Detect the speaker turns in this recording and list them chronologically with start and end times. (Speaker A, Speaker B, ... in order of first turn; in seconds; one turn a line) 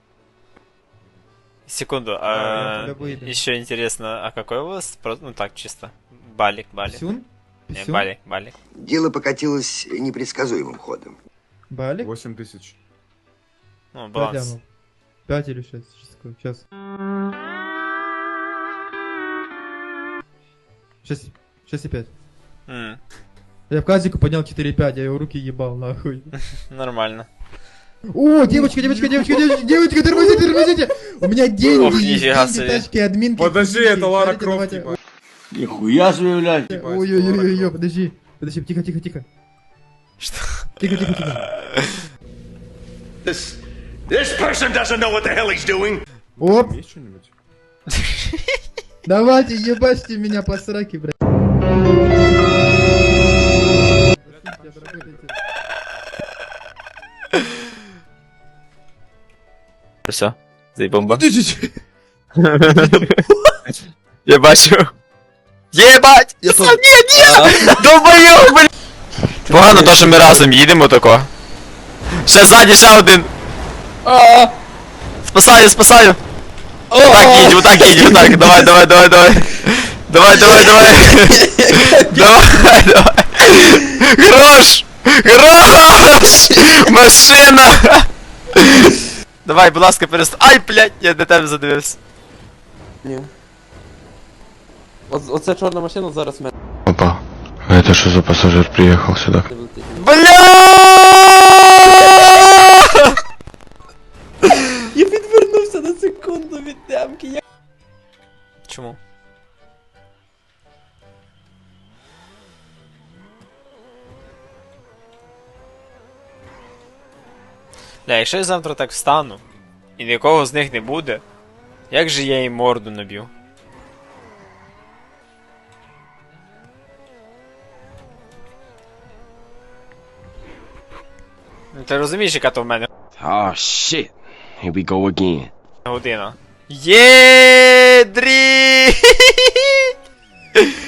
Speaker A: 1.6-7.0
Speaker B: 2.3-2.7
Speaker C: 2.3-3.4
Speaker C: 6.8-8.1
Speaker A: 7.7-8.5
Speaker D: 8.7-11.2
Speaker C: 11.7-12.1
Speaker B: 12.0-12.8
Speaker A: 13.9-14.6
Speaker C: 14.1-14.6
Speaker C: 15.3-16.6
Speaker C: 21.0-22.1
Speaker A: 22.7-23.0
Speaker C: 23.7-26.3
Speaker A: 26.6-27.3
Speaker C: 28.1-35.0
Speaker A: 31.7-32.9
Speaker B: 33.4-35.0
Speaker B: 36.7-37.8
Speaker C: 36.7-39.2
Speaker A: 40.2-40.7
Speaker C: 40.8-41.5
Speaker E: 43.2-43.5
Speaker E: 44.1-46.0
Speaker B: 46.4-47.3
Speaker C: 46.4-46.8
Speaker A: 48.0-48.4
Speaker C: 49.0-51.1
Speaker C: 54.1-55.3
Speaker B: 54.2-55.3
Speaker A: 60.1-61.2
Speaker C: 61.3-61.6
Speaker A: 62.4-63.1
Speaker A: 64.2-64.9
Speaker A: 65.7-68.7
Speaker F: 67.1-67.7
Speaker A: 69.5-71.3
Speaker F: 69.5-70.5
Speaker A: 72.2-73.3
Speaker F: 74.0-74.5
Speaker A: 75.2-76.2
Speaker F: 76.9-78.7
Speaker A: 77.0-92.0
Speaker F: 80.3-82.3
Speaker F: 93.0-93.3
Speaker F: 95.1-96.5
Speaker G: 96.8-99.5
Speaker F: 99.5-100.1
Speaker A: 100.0-103.1
Speaker F: 102.1-102.5
Speaker F: 104.7-107.4
Speaker A: 108.7-109.0
Speaker A: 118.0-119.4
Speaker A: 120.0-121.2
Speaker A: 121.9-123.3
Speaker A: 131.7-132.9
Speaker H: 133.2-135.5
Speaker A: 135.8-139.9